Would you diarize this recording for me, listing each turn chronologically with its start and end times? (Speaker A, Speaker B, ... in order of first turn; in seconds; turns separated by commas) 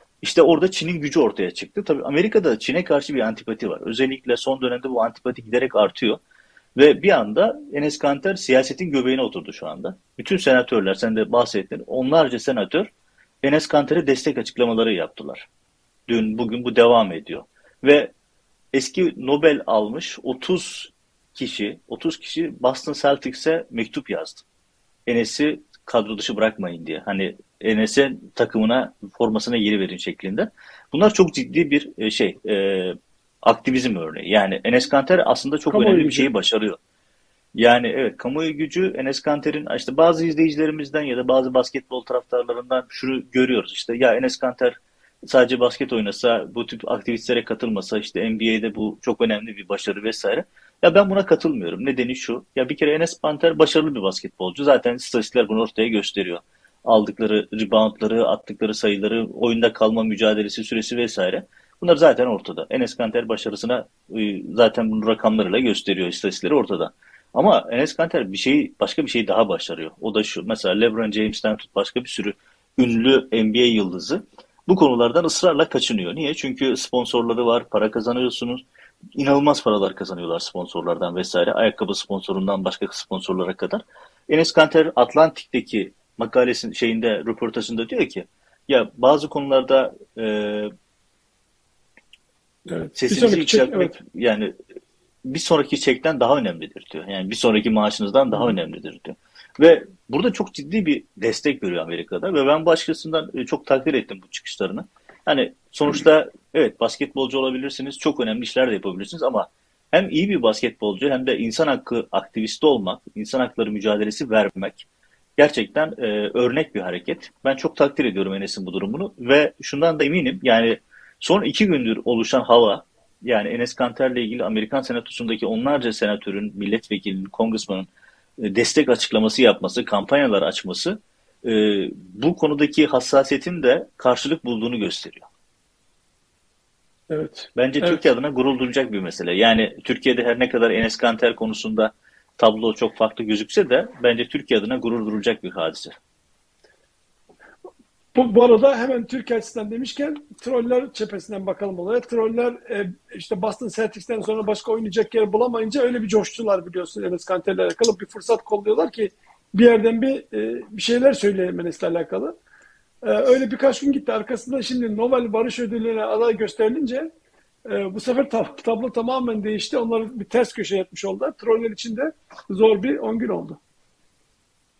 Speaker A: 0.2-6.2, Speaker A: 6.8-12.9, Speaker A: 13.4-15.5, Speaker A: 16.1-18.1, Speaker A: 18.7-24.4, Speaker A: 25.1-36.8, Speaker B: 35.7-36.3, Speaker A: 37.5-78.6, Speaker A: 79.1-90.7, Speaker B: 92.7-93.9, Speaker A: 93.0-94.5, Speaker A: 95.2-114.8, Speaker A: 115.4-135.2, Speaker B: 137.1-138.0, Speaker A: 137.5-146.0, Speaker B: 148.1-162.3, Speaker B: 163.0-167.1, Speaker B: 167.7-173.6